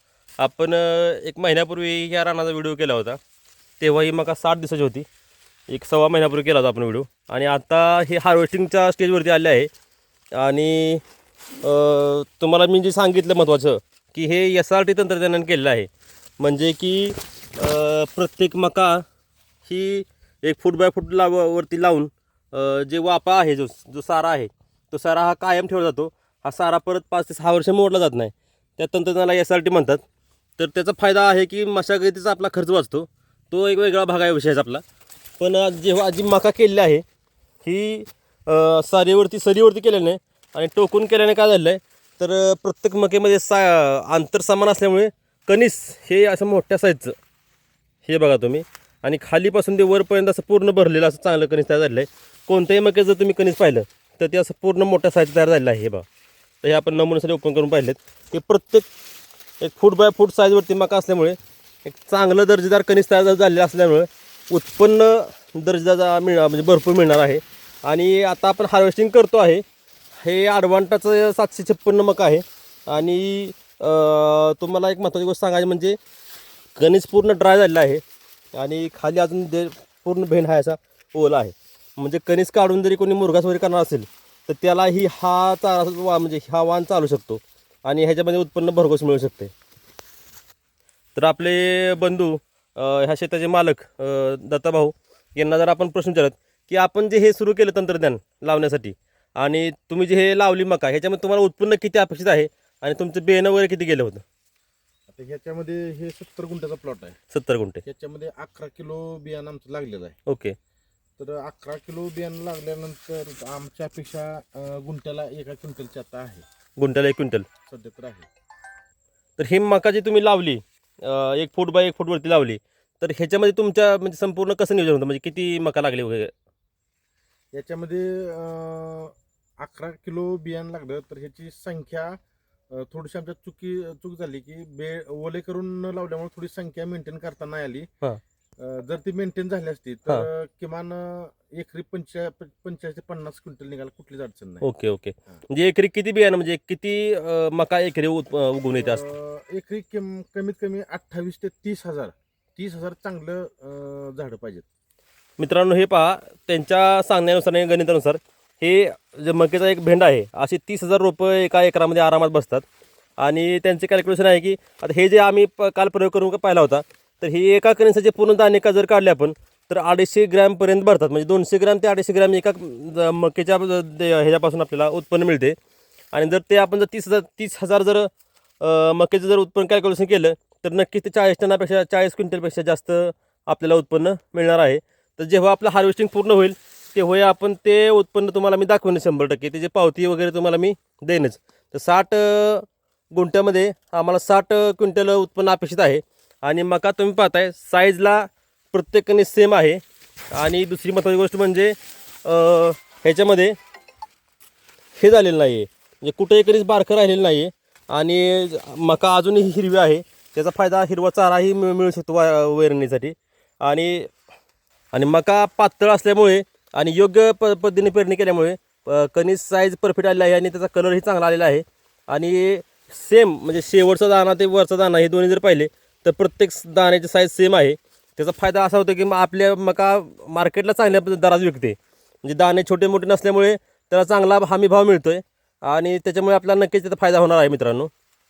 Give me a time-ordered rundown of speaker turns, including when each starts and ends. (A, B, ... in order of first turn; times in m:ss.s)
0:00.4-0:03.2 A
0:03.8-0:05.0 A
0:05.7-0:09.7 A
0:10.3-0:11.0 A
0:11.6-0:19.0 A
0:19.6-0:30.0 A
0:30.6-0:34.8 A
0:35.4-0:37.0 A
0:37.6-0:47.1 A
0:48.0-0:56.0 A
0:56.6-0:58.9 A
0:59.6-1:09.6 A
1:10.2-1:16.0 A
1:16.8-1:18.0 A
1:18.5-1:29.5 A
1:31.2-1:44.2 A
1:45.1-1:47.2 B
1:47.3-1:47.8 A
1:47.8-1:50.2 B
1:50.2-1:50.5 A
1:51.2-1:56.4 B
1:56.8-1:57.5 A
1:57.7-1:58.3 B
1:59.4-2:06.3 A
2:07.5-2:12.2 B
2:12.7-2:17.9 B
2:18.6-2:24.6 B
2:24.6-2:29.0 A
2:28.7-2:34.6 B
2:35.4-2:42.6 A
2:43.2-2:55.6 A
2:56.1-3:23.6 A
3:25.0-3:34.1 A
3:34.9-3:57.9 A